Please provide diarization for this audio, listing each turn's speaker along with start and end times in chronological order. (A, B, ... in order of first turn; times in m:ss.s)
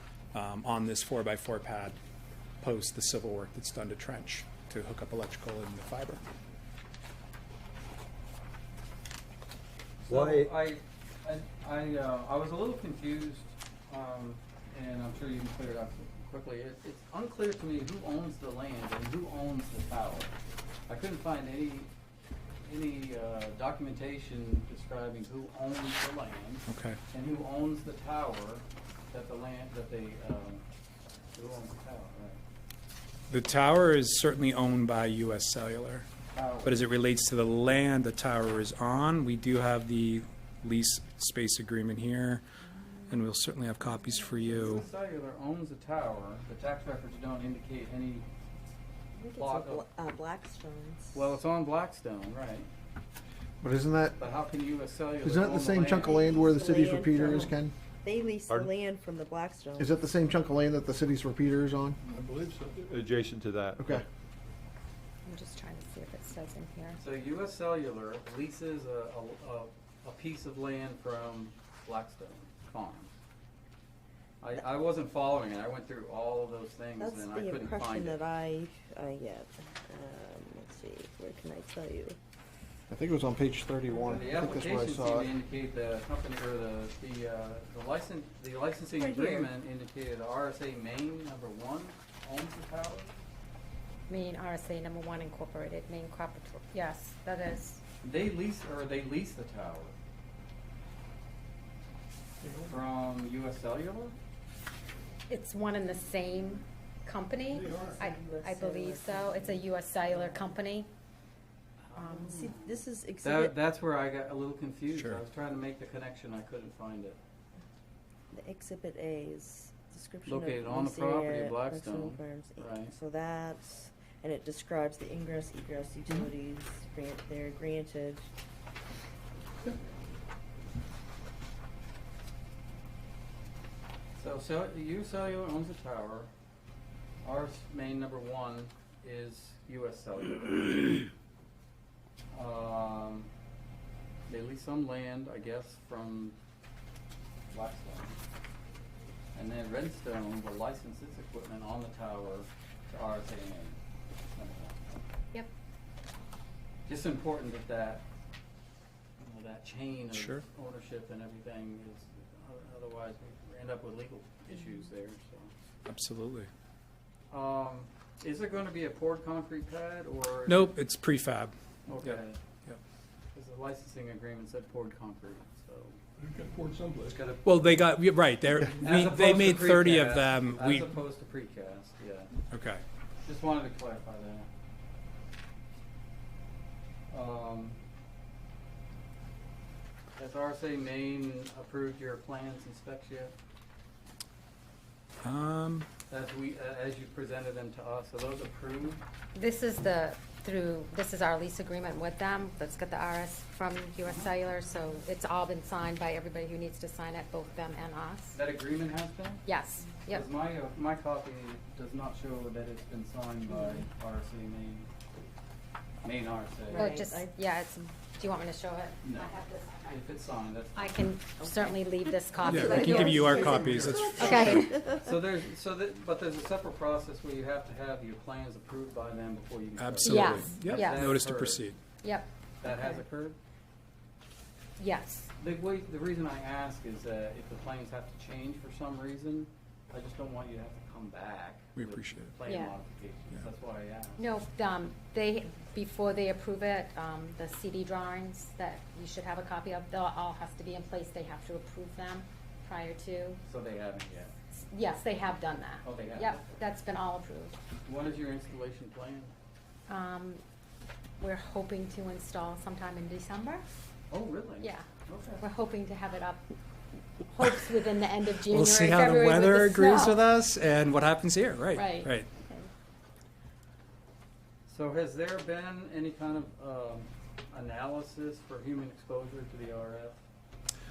0:00.3-0:01.9 A
0:02.6-0:06.2 A
0:10.1-0:20.3 B
0:10.1-0:10.5 C
0:20.9-0:21.9 B
0:22.6-0:30.6 B
0:26.7-0:27.0 A
0:31.3-0:32.4 B
0:33.3-0:36.0 A
0:36.3-0:36.8 B
0:36.6-0:42.4 A
0:43.1-0:44.8 A
0:44.4-0:48.2 B
0:49.1-0:51.3 D
0:49.4-0:49.9 B
0:51.1-0:52.7 B
0:53.6-0:54.2 E
0:54.2-0:56.5 B
0:55.2-0:57.7 E
0:56.0-0:59.9 D
0:59.8-1:02.0 E
1:02.1-1:04.0 C
1:03.8-1:04.0 E
1:05.2-1:07.0 F
1:07.0-1:13.1 B
1:14.4-1:18.2 B
1:17.0-1:22.2 D
1:22.9-1:25.3 E
1:24.0-1:33.2 B
1:29.0-1:29.5 D
1:34.1-1:37.8 F
1:38.0-1:39.9 B
1:42.6-1:44.1 B
1:45.3-1:50.9 F
1:47.5-1:50.5 D
1:51.9-1:57.2 B
1:51.9-1:52.4 F
1:52.2-1:53.5 D
1:54.9-1:55.2 A
1:58.3-2:08.3 D
2:00.2-2:02.9 B
2:14.2-2:16.3 B
2:17.2-2:21.1 B
2:22.3-2:23.3 B
2:24.3-2:26.4 B
2:27.5-2:28.2 B
2:29.3-2:33.8 B
2:34.4-2:35.0 B
2:36.9-2:38.0 B
2:39.2-2:45.5 B
2:40.1-2:40.4 A
2:45.8-2:46.5 A
2:47.3-2:50.8 B
2:50.5-2:52.8 A
2:51.8-2:52.4 B
2:53.3-2:56.0 B
2:56.2-2:57.2 C
2:57.1-2:57.5 B
2:57.4-3:00.9 A
2:58.8-3:02.3 B
3:02.5-3:02.8 A
3:03.2-3:04.5 B
3:07.1-3:07.8 B
3:10.2-3:13.3 B
3:15.2-3:15.9 A
3:16.1-3:19.0 B
3:19.3-3:28.4 F
3:28.3-3:29.4 B
3:29.4-3:30.2 F
3:30.1-3:34.9 B
3:36.0-3:36.9 B
3:36.7-3:37.4 D
3:36.7-3:39.9 F
3:39.0-3:41.1 B
3:40.7-3:44.8 F
3:41.4-3:41.9 D
3:42.4-3:44.6 A
3:42.5-3:45.0 D
3:44.8-3:51.8 B
3:49.8-3:51.8 A
3:50.0-3:51.1 F
3:52.0-3:53.0 F
3:52.6-3:53.4 B
3:54.8-3:55.3 F
3:55.4-4:04.2 B
4:01.8-4:02.3 A
4:02.4-4:02.8 F
4:04.2-4:13.4 F
4:13.4-4:14.3 B
4:14.6-4:17.6 F
4:15.8-4:16.4 B
4:17.8-4:19.3 B
4:19.9-4:20.4 F
4:21.2-4:23.6 F
4:24.1-4:25.4 B
4:24.6-4:24.9 F
4:25.4-4:26.4 F
4:27.3-4:30.2 F
4:28.5-4:32.3 A
4:31.7-4:32.7 F
4:34.7-4:40.2 B